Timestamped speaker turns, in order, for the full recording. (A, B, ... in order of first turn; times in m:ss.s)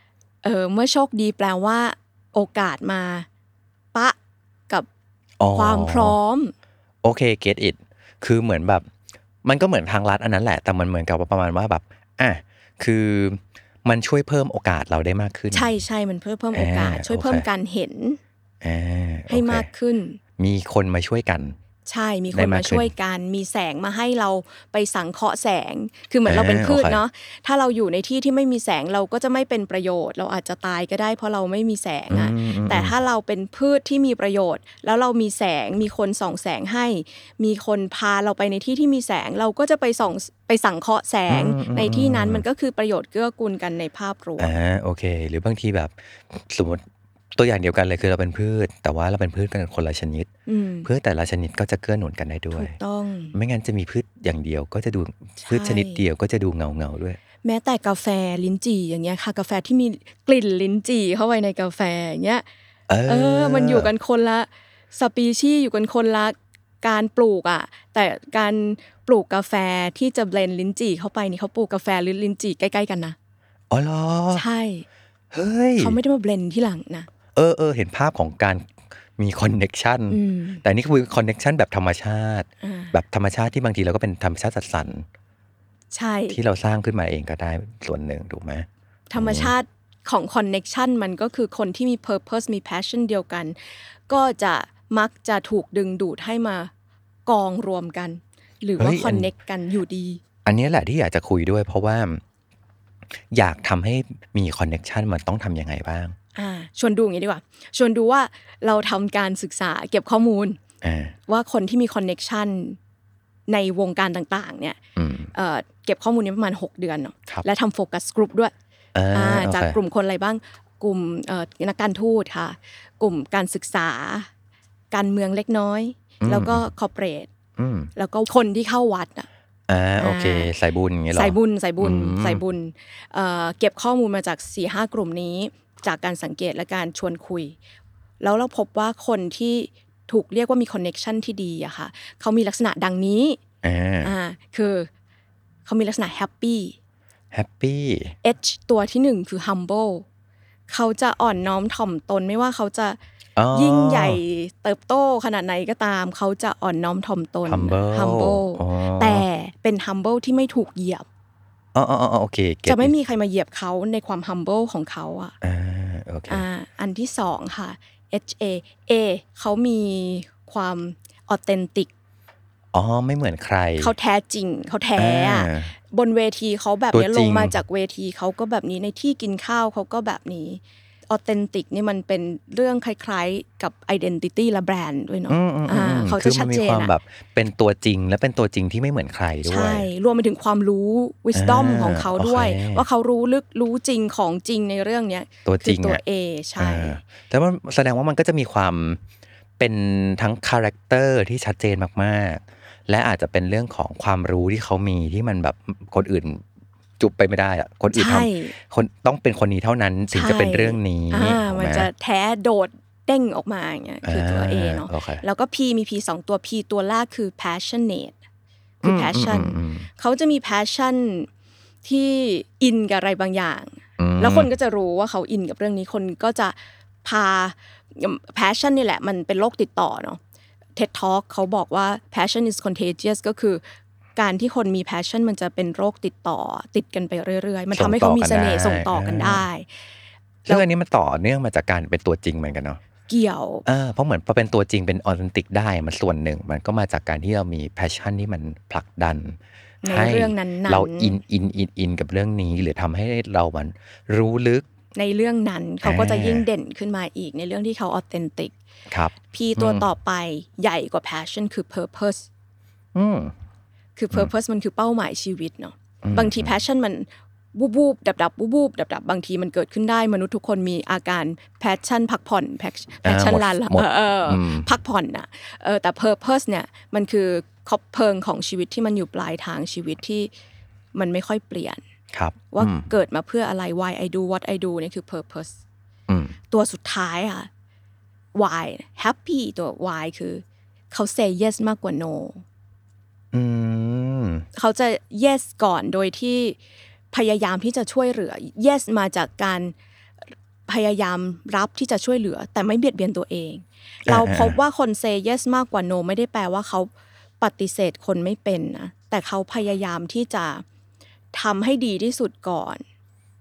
0:00.4-0:03.3 A
0:05.4-0:06.2 B
0:05.5-0:06.5 A
0:07.0-0:08.9 B
0:09.4-0:15.7 B
0:15.5-0:18.2 A
0:16.5-0:17.5 B
0:18.6-0:19.7 B
0:19.3-0:20.2 A
0:20.4-0:21.6 B
0:21.9-0:44.5 A
0:22.3-0:22.9 B
0:26.3-0:27.0 B
0:32.1-0:33.0 B
0:41.3-0:42.4 B
0:44.4-0:46.8 B
0:47.4-0:50.3 B
0:50.5-0:50.9 A
0:50.8-0:52.8 B
0:52.5-0:53.4 A
0:53.3-0:57.2 B
0:55.4-0:56.0 A
0:57.4-1:02.4 A
1:02.9-1:03.9 B
1:03.1-1:13.2 A
1:13.7-1:14.4 B
1:14.3-1:14.9 A
1:15.3-1:16.0 B
1:15.8-1:17.1 A
1:17.4-1:25.1 B
1:20.1-1:20.6 A
1:22.6-1:23.0 A
1:25.9-1:26.4 A
1:26.3-1:29.5 B
1:29.1-1:33.6 A
1:34.1-1:36.7 A
1:37.3-1:40.2 A
1:38.8-1:39.3 B
1:40.4-1:42.2 B
1:43.3-1:46.2 B
1:46.4-1:50.6 A
1:50.8-1:51.2 B
1:51.3-1:52.8 A
1:53.5-1:54.8 A
1:55.0-1:55.3 B
1:55.3-1:58.5 A
1:59.0-1:59.8 B
1:59.1-2:04.3 A
2:04.9-2:07.3 A
2:06.2-2:06.7 B
2:07.6-2:07.9 B
2:08.0-2:09.3 A
2:09.7-2:12.4 B
2:10.0-2:10.5 A
2:11.1-2:17.6 A
2:18.2-2:23.4 A
2:23.6-2:24.1 B
2:24.0-2:24.9 A
2:25.7-2:26.8 A
2:27.3-2:28.2 B
2:28.2-2:30.0 A
2:30.7-2:33.0 A
2:33.4-2:34.2 B
2:33.5-2:41.0 A
2:37.5-2:39.2 B
2:41.7-2:42.9 B
2:42.7-2:45.4 A
2:45.4-2:46.4 B
2:46.3-2:51.9 A
2:52.7-2:53.9 B
2:53.8-3:06.9 A
2:55.0-2:55.7 B
2:56.9-2:57.6 B
3:05.3-3:09.9 B
3:09.5-3:17.0 A
3:11.3-3:12.8 B
3:15.4-3:16.0 B
3:16.6-3:19.0 B
3:19.6-3:26.4 B
3:27.0-3:31.9 B
3:27.9-3:28.5 A
3:30.1-3:38.2 A
3:34.0-3:35.2 B
3:38.8-3:41.3 A
3:38.8-3:39.9 B
3:41.8-3:50.2 A
3:44.0-3:44.5 B
3:50.8-3:53.6 A
3:54.2-3:59.7 A
3:57.7-3:59.4 B
4:00.5-4:02.8 B
4:03.1-4:03.6 A
4:03.6-4:14.6 B
4:09.8-4:11.2 A
4:15.0-4:18.5 A
4:15.8-4:16.5 B
4:18.9-4:19.8 B
4:19.3-4:22.3 A
4:23.0-4:23.3 B
4:24.0-4:40.3 A
4:26.0-4:26.5 B
4:33.0-4:34.7 B
4:41.0-4:41.8 A
4:42.1-4:42.9 B
4:42.5-4:45.6 A
4:46.1-4:46.4 B
4:46.5-4:47.5 A
4:48.4-4:52.4 A
4:53.3-4:54.5 B
4:54.6-4:56.6 A
4:57.1-4:59.7 A
5:00.7-5:10.6 A
5:04.1-5:04.6 B
5:11.3-5:12.8 A